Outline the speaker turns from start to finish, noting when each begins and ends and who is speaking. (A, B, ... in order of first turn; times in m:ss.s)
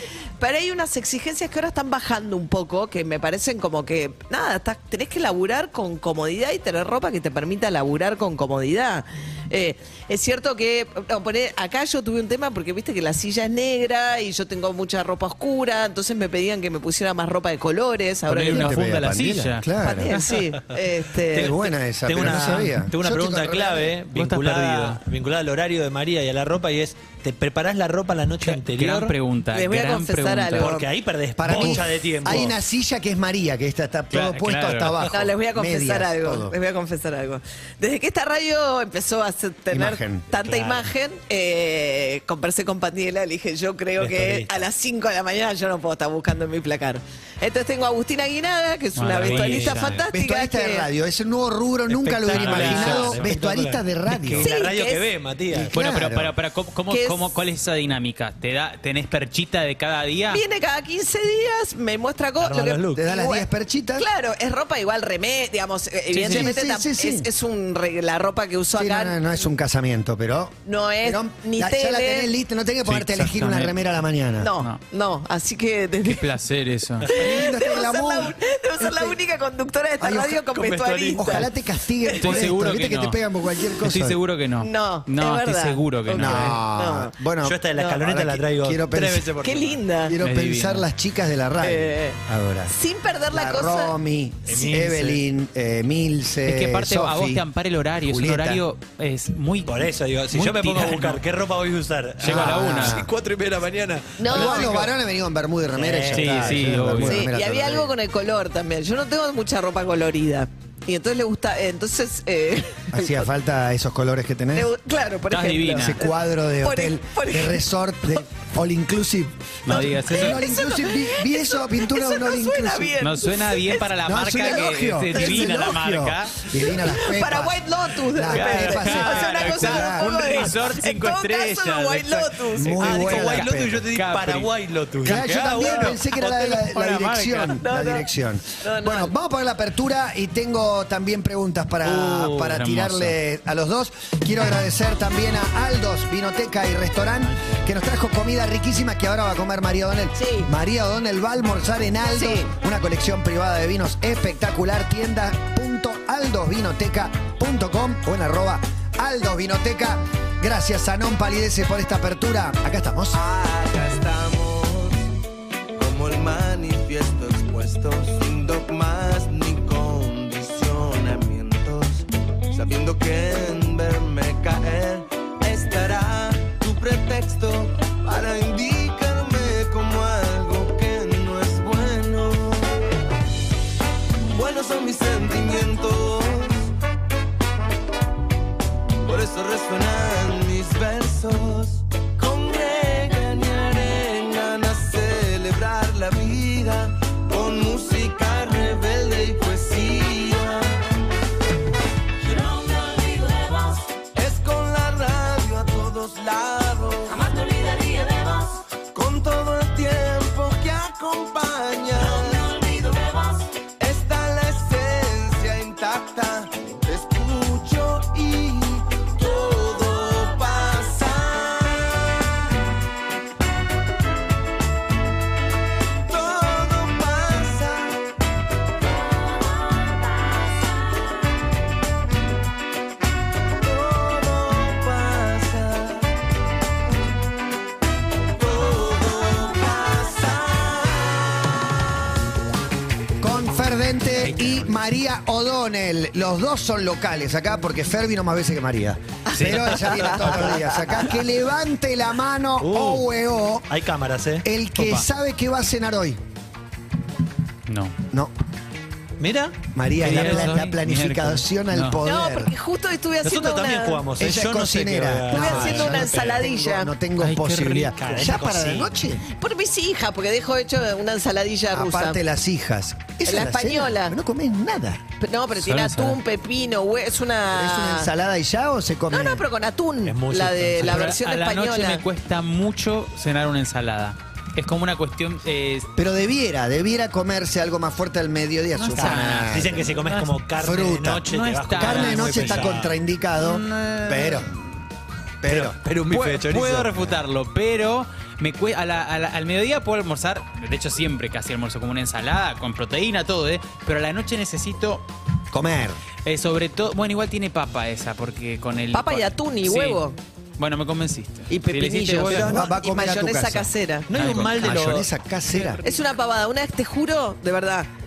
0:00.4-0:18.7 A
0:18.3-0:20.3 B
0:18.5-0:20.1 C
0:19.8-0:21.6 A
0:21.3-0:29.2 D
0:21.4-0:24.0 C
0:24.1-0:25.0 B
0:28.4-0:30.7 B
0:29.5-0:30.9 A
0:30.6-0:32.6 D
0:31.4-0:36.6 C
0:34.1-0:35.0 B
0:35.1-0:50.9 A
0:39.7-0:40.3 C
0:40.4-0:40.9 D
0:44.0-0:44.6 D
0:49.0-0:50.0 B
0:49.2-0:50.0 D
0:50.1-0:54.5 C
0:51.9-0:55.8 D
0:52.3-0:53.2 B
0:54.4-0:55.1 A
0:55.5-0:56.3 C
0:55.7-1:00.4 B
0:56.9-0:57.2 A
1:00.3-1:09.2 A
1:02.4-1:03.1 D
1:02.9-1:04.1 C
1:06.1-1:06.5 B
1:06.2-1:07.3 C
1:08.8-1:14.5 C
1:10.7-1:12.3 A
1:12.8-1:13.8 B
1:14.4-1:16.3 A
1:16.0-1:17.1 B
1:17.1-1:18.4 C
1:17.1-1:21.5 A
1:20.1-1:21.5 D
1:21.2-1:24.2 C
1:22.0-1:22.4 A
1:22.2-1:23.2 B
1:23.8-1:26.6 B
1:24.6-1:27.1 A
1:26.1-1:29.3 C
1:27.4-1:29.8 D
1:27.7-1:28.0 A
1:29.4-1:30.2 A
1:30.1-1:32.7 C
1:30.2-1:30.9 B
1:31.6-1:32.2 A
1:32.7-1:34.0 A
1:33.3-1:37.4 C
1:34.5-1:35.2 D
1:36.5-1:41.2 B
1:38.1-1:38.6 C
1:39.7-1:44.9 D
1:42.2-1:43.0 B
1:42.2-1:43.1 C
1:44.2-1:44.8 A
1:44.3-1:47.9 C
1:45.7-1:46.8 D
1:46.1-1:47.3 B
1:47.0-1:53.2 A
1:52.9-1:54.7 C
1:54.5-1:57.6 A
1:55.3-1:56.0 B
1:55.8-2:03.0 C
1:59.7-2:00.5 B
2:00.1-2:05.7 A
2:03.0-2:06.5 B
2:04.0-2:10.4 C
2:06.6-2:12.9 A
2:08.3-2:17.6 B
2:12.6-2:13.9 C
2:12.8-2:16.6 D
2:15.0-2:43.2 C
2:17.5-2:19.1 A
2:21.8-2:23.2 B
2:27.3-2:27.6 B
2:30.2-2:30.5 A
2:32.1-2:32.5 A
2:43.1-2:45.1 E
2:45.8-3:02.8 E
3:04.3-3:06.7 E
3:09.0-3:20.9 E
3:22.2-3:42.2 E
3:46.1-3:48.0 E
3:53.6-3:56.1 E
3:58.4-4:01.7 E
4:03.2-4:13.7 C
4:04.2-4:04.7 B
4:09.3-4:11.1 A
4:09.3-4:10.2 B
4:12.6-4:13.1 D
4:13.7-4:14.5 D
4:14.4-4:16.2 C
4:14.8-4:15.1 B
4:17.7-4:18.0 B
4:19.2-4:20.6 D
4:19.7-4:22.5 C
4:20.0-4:22.0 B
4:22.0-4:24.0 A
4:23.2-4:26.5 D
4:24.2-4:29.2 C
4:25.3-4:26.9 A
4:27.2-4:28.3 B
4:28.0-4:28.9 D
4:29.2-4:32.2 A
4:31.7-4:35.0 C
4:33.2-4:34.2 A
4:35.2-4:38.1 A
4:35.6-4:36.2 B
4:37.5-4:39.4 C
4:39.1-4:42.0 A
4:40.0-4:41.0 D
4:40.8-4:45.9 B
4:46.0-4:50.0 C
4:48.8-4:50.3 B
4:49.0-4:52.9 D
4:50.6-4:54.5 C
4:51.3-4:54.7 B
4:55.4-4:55.8 C
4:55.5-4:57.2 D
4:56.1-5:05.1 B
5:05.5-5:06.0 C
5:06.2-5:10.0 B
5:08.9-5:10.2 A
5:10.6-5:12.7 B
5:11.5-5:14.1 A
5:12.3-5:15.8 C
5:14.1-5:15.1 D
5:14.1-5:14.7 B
5:15.8-5:17.9 A